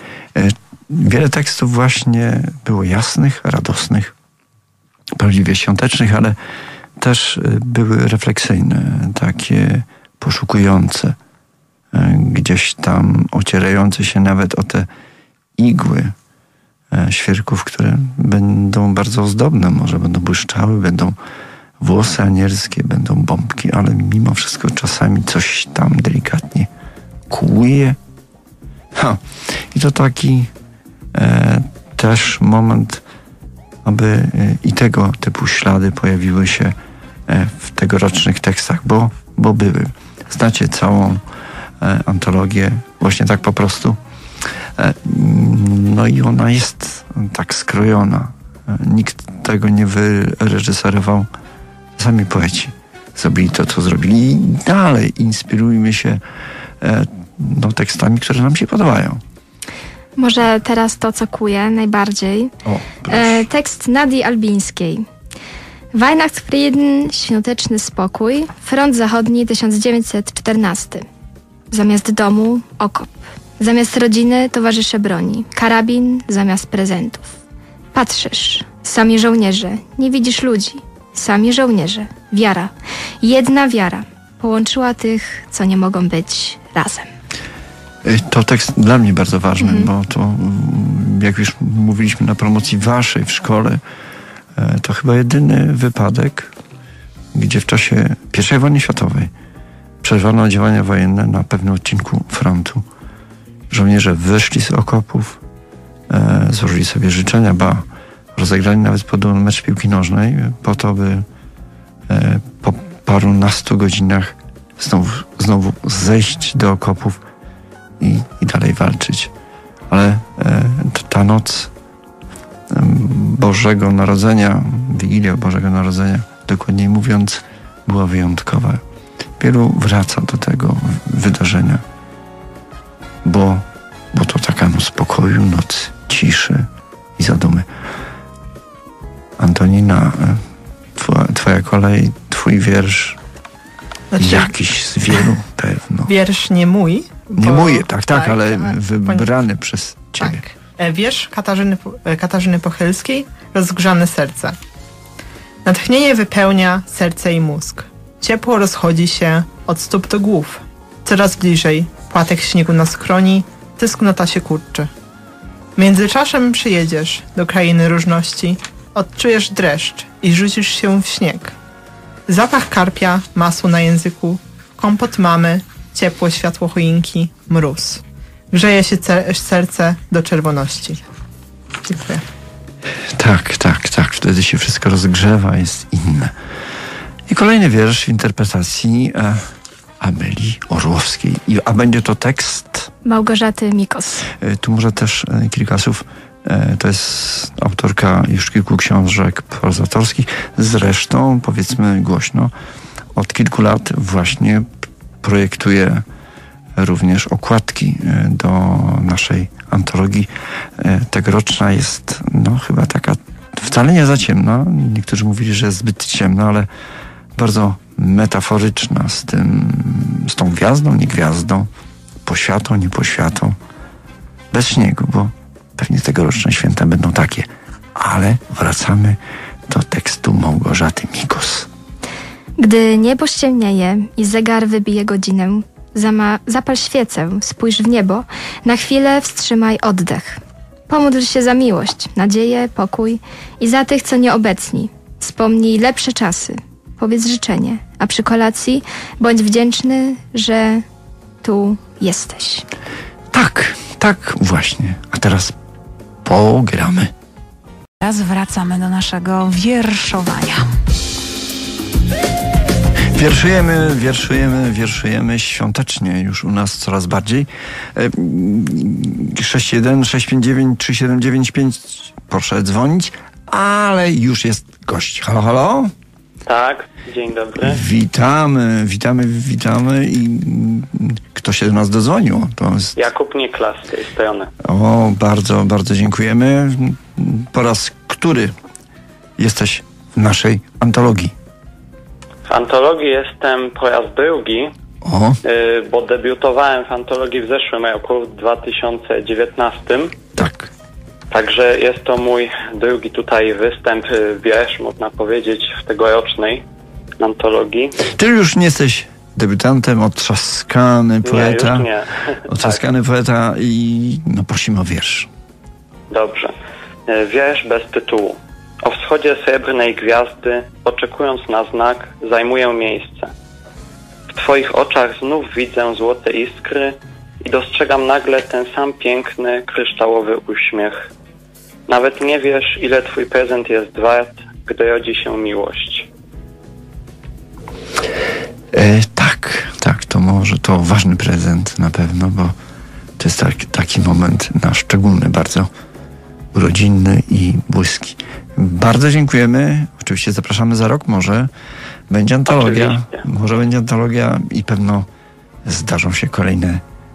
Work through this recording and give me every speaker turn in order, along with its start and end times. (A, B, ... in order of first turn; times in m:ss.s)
0:00.4-0:04.1 A
0:05.2-0:06.4 A
0:07.0-0:11.2 A
0:11.9-0:14.9 A
0:15.6-0:16.2 A
0:16.9-0:21.2 A
0:21.8-0:26.7 A
0:27.3-0:28.0 A
0:29.0-0:30.5 A
0:31.1-0:33.0 A
0:33.8-0:36.8 A
0:37.3-0:41.2 A
0:41.8-0:44.0 A
0:44.8-0:51.3 A
0:52.0-0:56.2 A
0:56.8-0:59.2 A
1:00.2-1:02.5 B
1:02.6-1:03.4 A
1:03.1-1:05.0 B
1:05.9-1:11.1 B
1:11.7-1:17.3 B
1:17.9-1:27.1 B
1:28.0-1:33.8 A
1:29.6-1:29.9 B
1:34.6-1:36.5 A
1:37.3-1:39.3 A
1:40.0-1:42.8 A
1:43.7-1:45.4 A
1:46.1-1:51.3 A
1:52.1-1:57.2 A
1:58.0-1:59.3 A
1:59.9-2:01.7 A
2:02.7-2:08.8 A
2:09.4-2:11.8 A
2:13.2-2:17.7 A
2:19.4-2:20.4 A
2:21.0-2:23.2 A
2:24.1-2:24.5 C
2:24.2-2:26.1 A
2:26.1-2:29.3 C
2:27.4-2:30.4 A
2:30.2-2:34.6 C
2:35.6-2:44.9 C
2:45.8-2:51.6 C
2:52.3-3:01.0 C
3:01.9-3:02.2 C
3:03.1-3:06.3 A
3:07.3-3:09.5 A
3:10.0-3:12.9 A
3:13.0-3:14.3 B
3:14.4-3:22.5 A
3:23.2-3:24.7 A
3:25.2-3:26.0 A
3:26.8-3:36.7 A
3:37.4-3:41.7 A
3:42.2-3:43.6 A
3:44.5-3:51.7 A
3:52.6-4:10.8 B
4:11.4-4:12.6 B
4:13.3-4:15.6 A
4:16.2-4:17.1 A
4:18.0-4:20.7 D
4:23.1-4:35.9 A
4:36.4-4:37.8 E
4:37.6-4:43.1 A
4:43.0-4:44.5 E
4:44.6-4:48.6 A
4:49.4-4:51.4 A
4:52.5-4:54.7 E
4:55.0-4:55.4 A
4:55.4-5:00.2 E
5:00.4-5:00.7 A
5:01.3-5:06.6 E
5:07.2-5:08.0 E
5:08.1-5:11.9 A
5:11.2-5:12.8 E
5:12.5-5:15.3 A
5:16.1-5:16.6 E
5:17.1-5:23.3 E
5:24.3-5:31.1 E
5:31.9-5:36.1 E
5:38.7-5:42.6 A
5:43.2-5:45.7 A
5:46.5-5:51.5 A
5:52.1-5:55.1 A
5:52.5-5:53.2 E
5:55.6-5:56.8 A